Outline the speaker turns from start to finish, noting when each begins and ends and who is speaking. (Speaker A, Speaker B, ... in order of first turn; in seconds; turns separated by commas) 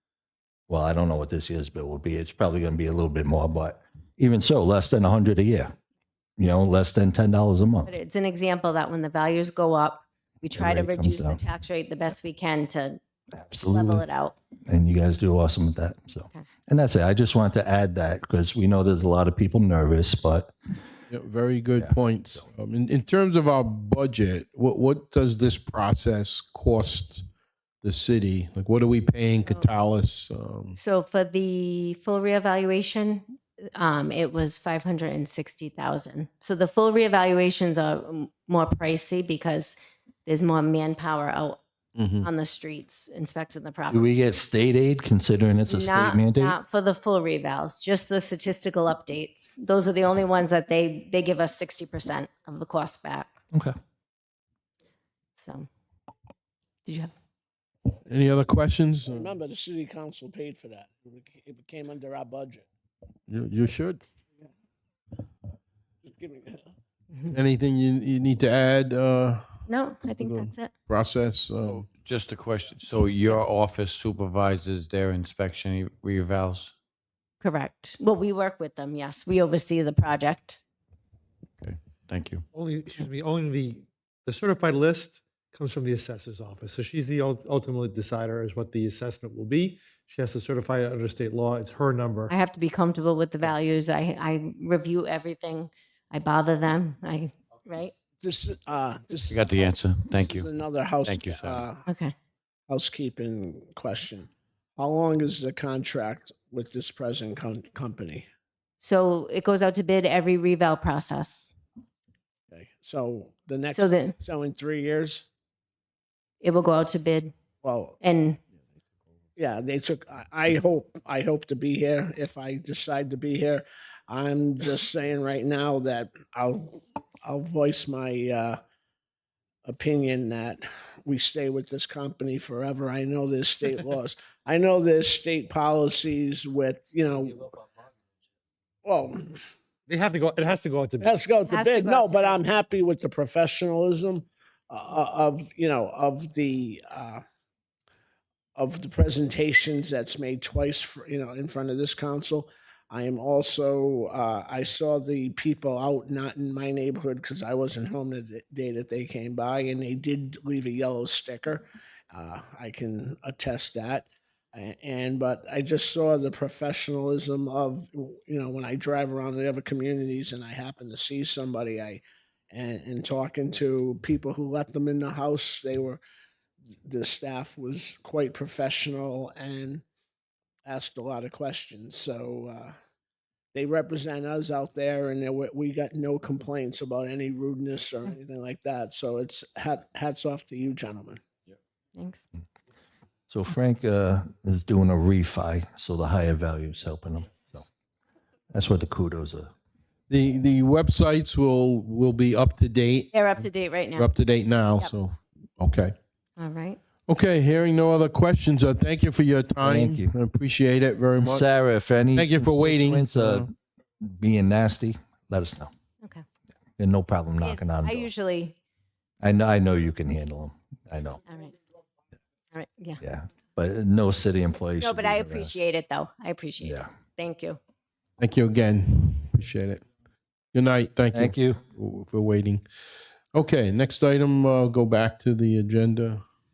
Speaker A: 0.7-5.7, Speaker A: 6.4-7.9, Speaker B: 7.8-13.0, Speaker A: 10.6-11.4, Speaker A: 13.3-14.0, Speaker B: 13.7-14.4, Speaker A: 14.7-20.5, Speaker C: 21.1-27.2, Speaker A: 21.8-22.4, Speaker C: 27.8-30.8, Speaker B: 30.8-41.6, Speaker C: 42.0-42.3, Speaker B: 42.2-44.1, Speaker A: 43.9-46.6, Speaker B: 45.7-53.4, Speaker B: 55.4-55.7, Speaker B: 56.9-57.1, Speaker C: 58.0-59.3, Speaker D: 59.0-62.6, Speaker C: 63.3-64.0, Speaker D: 66.0-66.7, Speaker C: 67.3-71.8, Speaker B: 69.7-70.7, Speaker E: 71.7-76.7, Speaker B: 77.4-80.6, Speaker E: 81.6-82.4, Speaker F: 82.5-92.3, Speaker B: 92.3-97.9, Speaker D: 98.2-101.9, Speaker E: 99.3-100.5, Speaker E: 101.0-101.6, Speaker B: 101.9-102.1, Speaker D: 102.7-108.2, Speaker B: 108.8-111.5, Speaker D: 112.5-115.3, Speaker B: 113.7-114.2, Speaker B: 116.4-117.3, Speaker D: 117.6-118.0, Speaker B: 118.0-118.4, Speaker D: 119.3-128.6, Speaker D: 129.6-137.5, Speaker D: 138.8-139.4, Speaker F: 139.9-141.1, Speaker D: 141.0-147.2, Speaker B: 141.5-142.4, Speaker D: 148.6-176.0, Speaker D: 176.8-179.8, Speaker D: 180.6-182.7, Speaker D: 183.5-191.2, Speaker B: 191.9-192.2, Speaker A: 193.3-197.7, Speaker A: 198.5-199.5, Speaker C: 200.1-203.2, Speaker B: 203.1-204.1, Speaker C: 203.9-205.9, Speaker B: 206.4-206.8, Speaker C: 207.1-211.5, Speaker A: 209.6-210.1, Speaker A: 211.2-213.5, Speaker C: 212.1-213.5, Speaker A: 214.0-215.7, Speaker A: 216.8-218.1, Speaker B: 217.4-218.6, Speaker A: 219.2-221.2, Speaker B: 221.3-221.5, Speaker B: 222.5-223.0, Speaker A: 223.0-225.6, Speaker B: 224.8-227.6, Speaker C: 228.2-229.8, Speaker C: 230.5-232.6, Speaker A: 231.1-231.6, Speaker C: 233.3-236.2